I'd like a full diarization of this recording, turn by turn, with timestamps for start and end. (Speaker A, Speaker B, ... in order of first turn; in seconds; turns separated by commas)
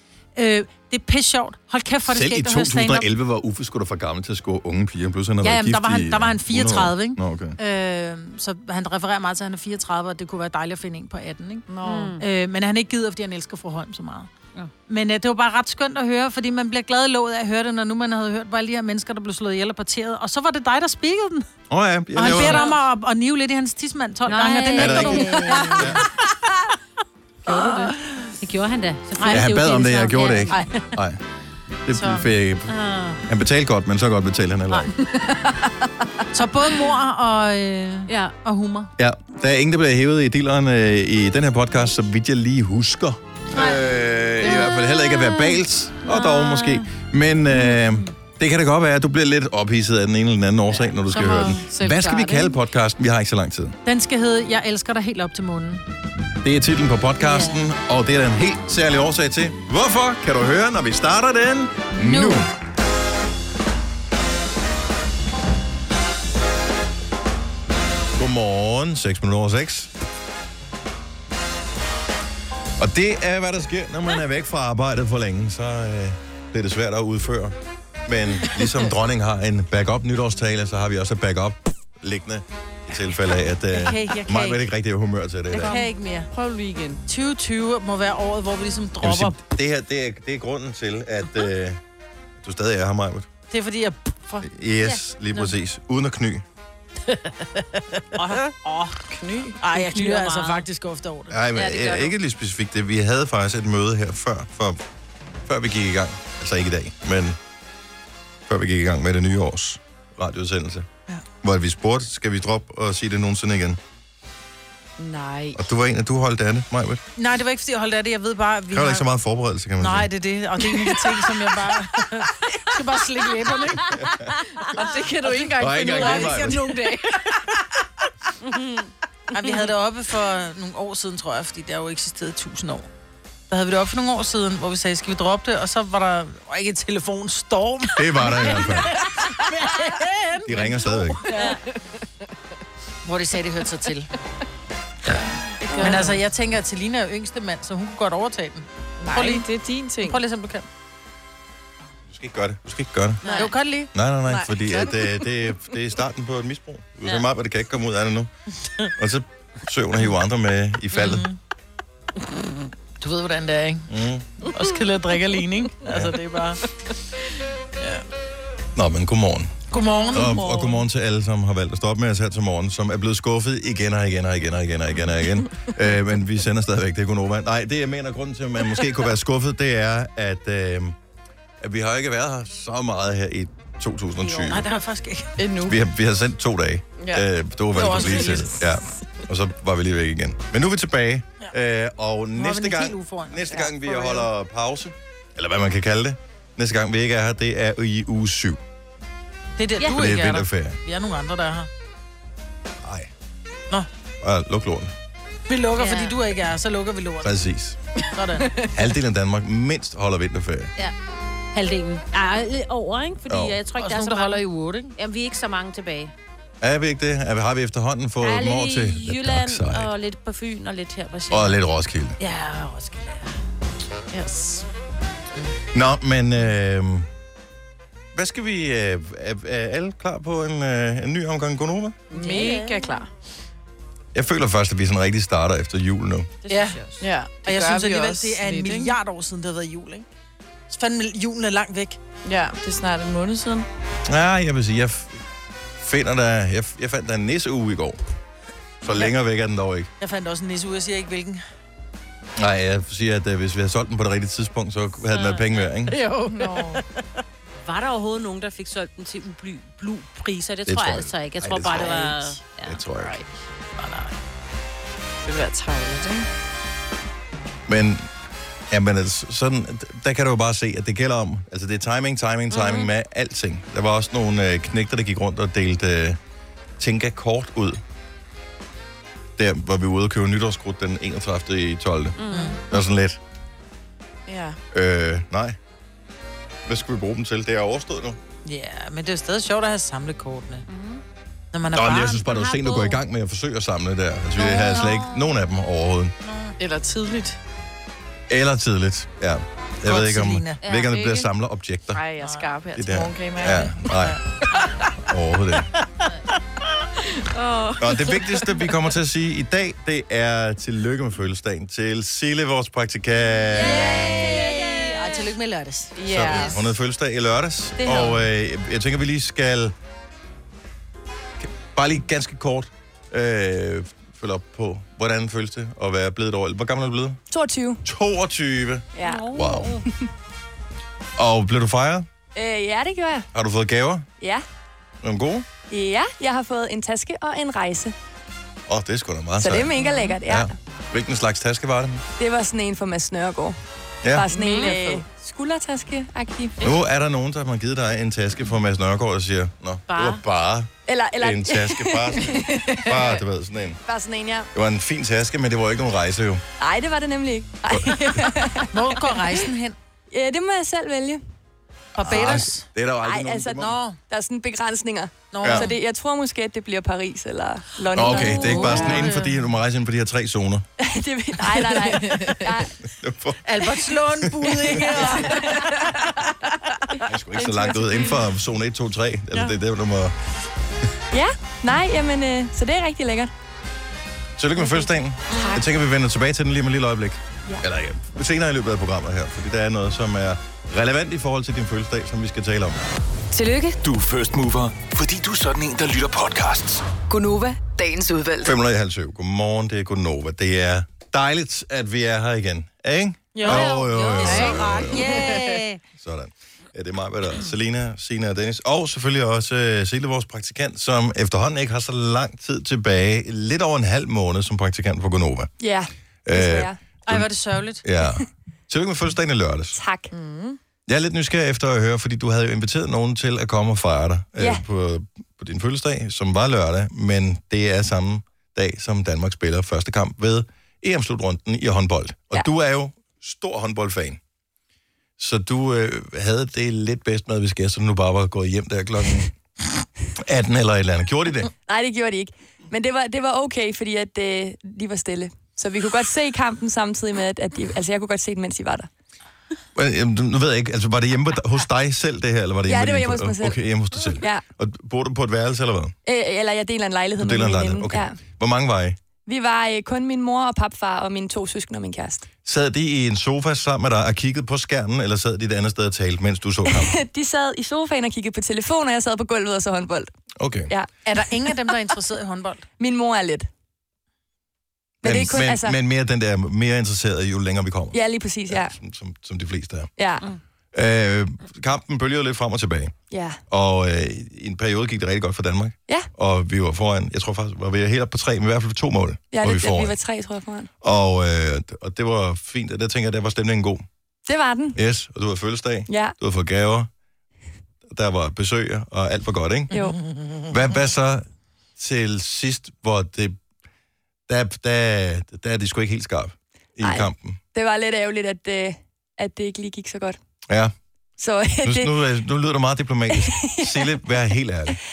Speaker A: 0.3-3.1, Speaker B: 2.1-7.6, Speaker A: 5.4-11.7, Speaker C: 11.7-12.2, Speaker D: 11.8-12.2, Speaker A: 12.2-14.3, Speaker A: 14.9-21.5, Speaker B: 21.7-22.7, Speaker A: 22.1-26.4, Speaker D: 22.2-22.8, Speaker D: 24.3-26.0, Speaker B: 24.8-26.1, Speaker A: 27.5-28.3, Speaker D: 27.5-30.9, Speaker A: 29.2-29.7, Speaker B: 29.3-31.2, Speaker B: 31.9-32.8, Speaker A: 31.9-32.3, Speaker D: 32.7-33.2, Speaker B: 33.3-34.9, Speaker A: 34.7-35.5, Speaker A: 36.3-38.9, Speaker D: 38.1-38.3, Speaker B: 39.0-53.8, Speaker D: 44.4-46.9, Speaker D: 47.5-48.1, Speaker C: 51.1-52.6, Speaker A: 53.9-55.8, Speaker B: 56.4-62.5, Speaker D: 57.2-57.6, Speaker B: 68.2-69.9, Speaker B: 72.8-85.8, Speaker A: 83.8-84.6, Speaker A: 85.5-86.3, Speaker C: 85.5-87.0, Speaker A: 87.1-89.4, Speaker B: 89.0-91.8, Speaker B: 92.4-93.3, Speaker A: 93.5-94.5, Speaker B: 94.4-96.5, Speaker A: 97.5-99.1, Speaker D: 98.2-98.4, Speaker C: 99.1-99.6, Speaker A: 99.6-101.4, Speaker D: 99.7-100.7, Speaker B: 101.3-104.8, Speaker D: 101.6-102.1, Speaker B: 105.5-107.4, Speaker B: 108.5-110.9, Speaker B: 111.4-113.8, Speaker C: 115.0-115.6, Speaker B: 115.5-117.0, Speaker A: 117.2-119.1, Speaker B: 118.7-120.1, Speaker A: 119.8-124.0, Speaker C: 120.8-121.2, Speaker C: 124.6-127.6, Speaker A: 125.2-126.6, Speaker B: 125.5-126.8, Speaker D: 128.4-128.9, Speaker A: 129.3-132.9, Speaker A: 133.5-141.6, Speaker B: 137.9-139.0, Speaker B: 140.4-141.3, Speaker C: 141.3-141.6, Speaker A: 143.0-144.1, Speaker C: 145.6-146.2, Speaker A: 145.7-149.5, Speaker C: 149.0-150.2, Speaker A: 150.0-150.7, Speaker B: 152.1-153.2, Speaker D: 153.2-153.5, Speaker A: 153.4-153.9, Speaker B: 153.9-158.3, Speaker C: 154.3-155.2, Speaker B: 159.0-161.3, Speaker A: 160.9-161.4, Speaker A: 163.0-163.9, Speaker B: 163.9-164.4, Speaker A: 164.4-166.6, Speaker B: 165.9-166.2, Speaker B: 168.8-181.0, Speaker A: 169.7-170.8, Speaker B: 181.6-184.7, Speaker A: 184.3-185.4, Speaker C: 185.4-185.8, Speaker B: 185.6-198.6, Speaker C: 187.0-188.5, Speaker A: 187.8-188.6, Speaker A: 192.4-193.6, Speaker C: 193.5-194.3, Speaker A: 199.6-201.7, Speaker B: 199.9-200.8, Speaker B: 202.8-203.1, Speaker B: 204.2-204.9, Speaker A: 205.5-207.3, Speaker D: 205.8-206.2, Speaker B: 207.2-207.8, Speaker A: 208.1-208.6, Speaker B: 208.7-210.7, Speaker D: 211.5-214.4, Speaker B: 213.3-213.6, Speaker A: 213.8-214.9, Speaker D: 215.0-216.1, Speaker B: 216.6-219.9, Speaker D: 218.2-221.6, Speaker B: 221.3-222.2, Speaker D: 222.2-223.3, Speaker C: 224.1-224.6, Speaker B: 225.7-227.1, Speaker B: 228.1-232.0, Speaker C: 232.1-233.1, Speaker D: 232.1-233.0, Speaker B: 234.1-236.4, Speaker A: 236.5-236.9, Speaker C: 236.5-239.0, Speaker A: 237.4-240.1, Speaker A: 240.7-242.0, Speaker C: 242.2-243.7, Speaker B: 244.1-245.2, Speaker B: 245.8-248.0, Speaker B: 248.8-249.9, Speaker A: 250.0-251.4, Speaker B: 252.4-256.0, Speaker D: 255.1-255.7, Speaker A: 255.9-256.8, Speaker C: 256.2-256.8, Speaker D: 257.6-262.8, Speaker B: 260.7-262.1, Speaker C: 261.7-262.0, Speaker A: 261.9-262.2, Speaker B: 262.6-263.2, Speaker A: 263.8-264.1, Speaker C: 265.3-266.3, Speaker B: 267.7-268.1, Speaker B: 268.7-276.2, Speaker D: 272.5-272.9, Speaker B: 276.8-277.8, Speaker B: 279.4-282.2, Speaker D: 282.2-282.6, Speaker A: 282.3-282.6, Speaker B: 282.7-283.2, Speaker C: 284.3-284.6, Speaker B: 284.7-285.6, Speaker B: 286.7-288.2, Speaker A: 288.4-290.7, Speaker D: 290.7-291.0, Speaker A: 291.5-292.2, Speaker B: 291.7-296.1, Speaker D: 292.2-293.0, Speaker D: 294.5-295.3, Speaker A: 294.5-295.0, Speaker A: 296.2-296.6, Speaker C: 296.6-297.4, Speaker B: 298.3-302.0, Speaker A: 299.8-300.6, Speaker D: 300.6-301.0, Speaker C: 300.9-301.3, Speaker C: 301.9-303.8, Speaker A: 302.2-302.5, Speaker B: 302.8-304.2, Speaker A: 304.0-304.7, Speaker B: 305.0-305.7, Speaker C: 307.2-308.1, Speaker B: 307.8-314.3, Speaker D: 313.5-315.2, Speaker A: 313.6-316.5, Speaker C: 316.0-316.6, Speaker B: 316.1-319.8, Speaker E: 317.8-318.2, Speaker B: 321.4-327.2, Speaker E: 327.3-327.9, Speaker B: 327.9-329.8, Speaker E: 328.9-329.3, Speaker D: 329.0-329.8, Speaker B: 331.2-332.1, Speaker E: 332.4-333.3, Speaker B: 333.3-334.1, Speaker B: 335.0-335.5, Speaker E: 335.7-337.9, Speaker B: 338.7-339.7, Speaker E: 339.4-340.5, Speaker B: 340.3-342.0, Speaker E: 342.2-343.6, Speaker E: 344.1-346.6, Speaker C: 344.3-345.1, Speaker B: 346.6-353.8, Speaker D: 349.9-350.2, Speaker E: 350.9-353.0, Speaker E: 353.9-354.5, Speaker B: 354.5-356.4, Speaker E: 356.6-359.1, Speaker A: 358.7-359.8, Speaker E: 360.1-361.2, Speaker A: 361.9-362.7, Speaker B: 362.0-363.8, Speaker E: 363.0-369.1, Speaker A: 363.6-364.0, Speaker A: 365.3-365.7, Speaker B: 365.4-365.7, Speaker B: 367.9-370.6, Speaker A: 368.1-369.4, Speaker E: 370.8-372.7, Speaker C: 371.7-372.5, Speaker B: 372.9-375.3, Speaker A: 373.4-376.1, Speaker B: 377.0-380.1, Speaker E: 377.4-378.2, Speaker E: 381.1-383.3, Speaker B: 384.4-392.8, Speaker E: 384.6-385.6, Speaker F: 393.3-393.8, Speaker G: 393.8-396.9, Speaker F: 397.1-398.6, Speaker B: 398.4-405.4, Speaker C: 403.4-405.6, Speaker A: 403.4-405.8, Speaker B: 406.0-415.5, Speaker E: 415.6-416.8, Speaker B: 416.2-419.8, Speaker A: 417.1-417.8, Speaker E: 419.7-420.1, Speaker C: 420.1-420.6, Speaker B: 420.9-434.2, Speaker E: 424.4-424.6, Speaker B: 435.2-439.3, Speaker B: 440.2-441.5, Speaker E: 441.7-448.9, Speaker B: 449.8-455.9, Speaker E: 452.7-453.6, Speaker E: 454.2-454.4, Speaker E: 456.1-458.2, Speaker B: 457.2-459.0, Speaker E: 459.3-462.3, Speaker B: 462.4-467.0, Speaker E: 466.7-470.1, Speaker B: 470.4-470.7, Speaker A: 471.1-472.6, Speaker E: 472.8-473.5, Speaker E: 475.0-475.8, Speaker B: 475.0-479.9, Speaker E: 477.9-478.7, Speaker E: 480.0-480.3, Speaker B: 480.7-482.9, Speaker E: 483.1-483.4, Speaker B: 483.5-489.9, Speaker E: 489.3-490.7, Speaker B: 490.8-493.8, Speaker E: 494.3-494.8, Speaker B: 494.8-496.9, Speaker E: 495.9-496.1, Speaker B: 497.9-499.7, Speaker E: 499.7-500.0, Speaker A: 499.7-500.5, Speaker B: 500.5-501.2, Speaker B: 501.8-503.4, Speaker B: 504.3-507.4, Speaker E: 506.8-510.2, Speaker B: 510.5-510.7, Speaker E: 511.2-512.0, Speaker B: 511.6-514.8, Speaker E: 513.1-513.9